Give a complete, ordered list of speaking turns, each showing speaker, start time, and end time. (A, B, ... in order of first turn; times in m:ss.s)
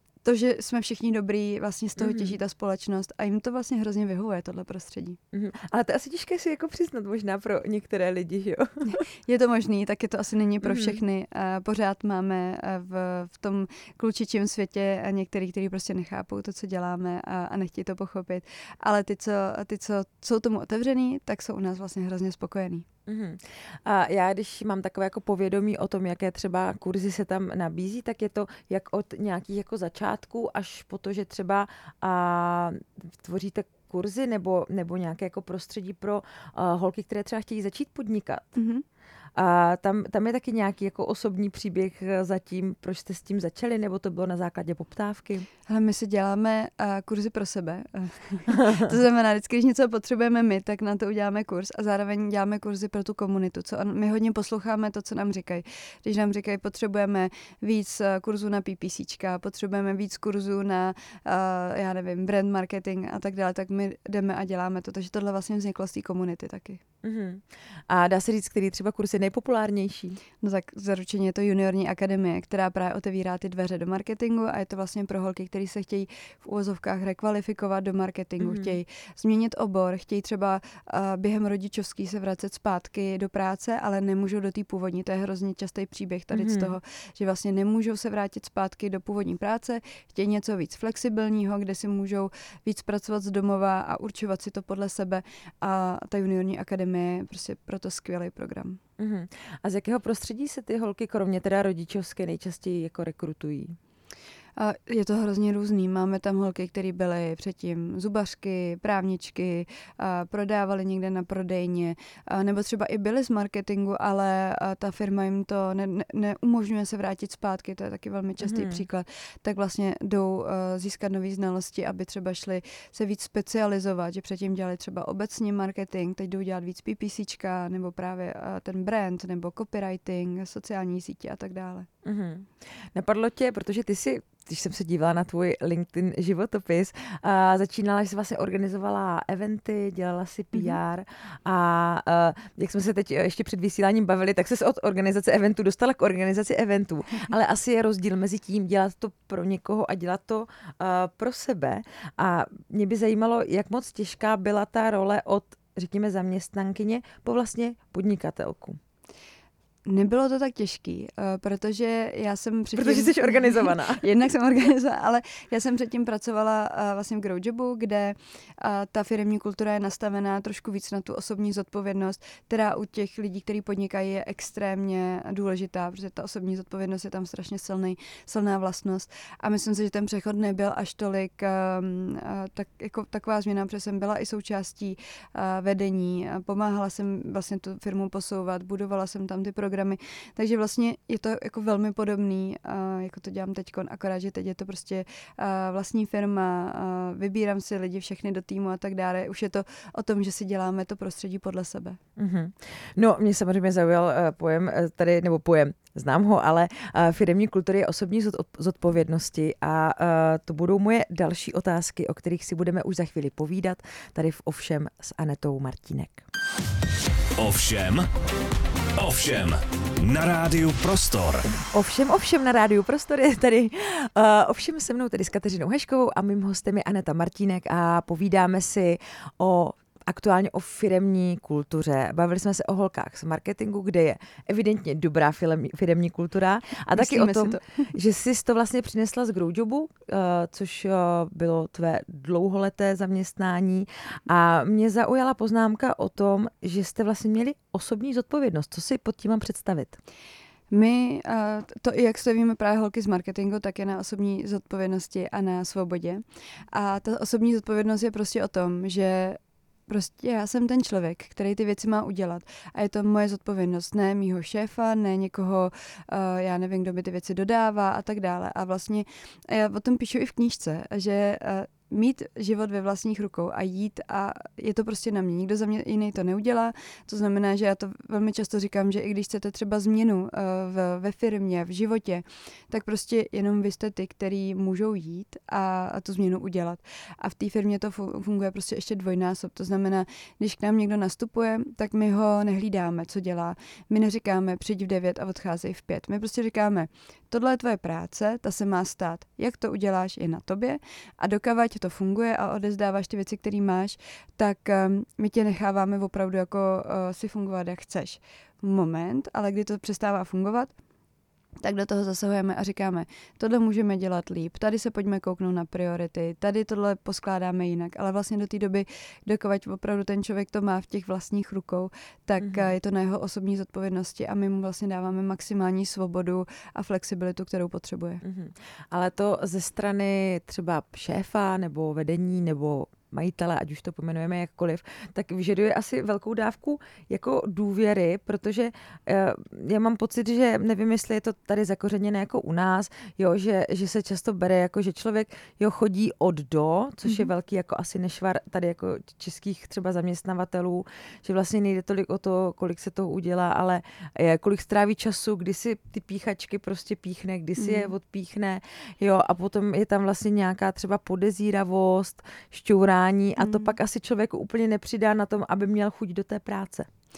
0:00.2-0:05.2 A
0:02.0-0:02.4 B
0:05.3-0:09.0 B
0:08.9-0:22.9 A
0:10.6-0:11.0 B
0:23.1-0:38.5 B
0:38.6-0:38.8 A
0:39.4-0:45.5 B
0:45.7-1:06.8 A
1:07.0-1:10.2 B
1:10.4-1:38.8 A
1:18.4-1:18.8 B
1:26.3-1:26.8 B
1:39.0-1:43.8 B
1:44.6-2:11.9 A
1:58.4-1:58.9 B
2:12.0-2:38.8 B
2:39.9-3:22.0 A
2:42.8-2:44.1 B
3:22.2-3:36.2 B
3:37.4-3:38.1 C
3:39.0-3:41.5 C
3:41.5-4:10.0 B
3:57.0-3:57.9 A
4:10.7-5:10.7 A
5:11.6-5:28.2 A
5:22.4-5:22.7 B
5:28.2-6:06.9 B
5:57.6-5:57.9 A
6:03.4-6:03.8 A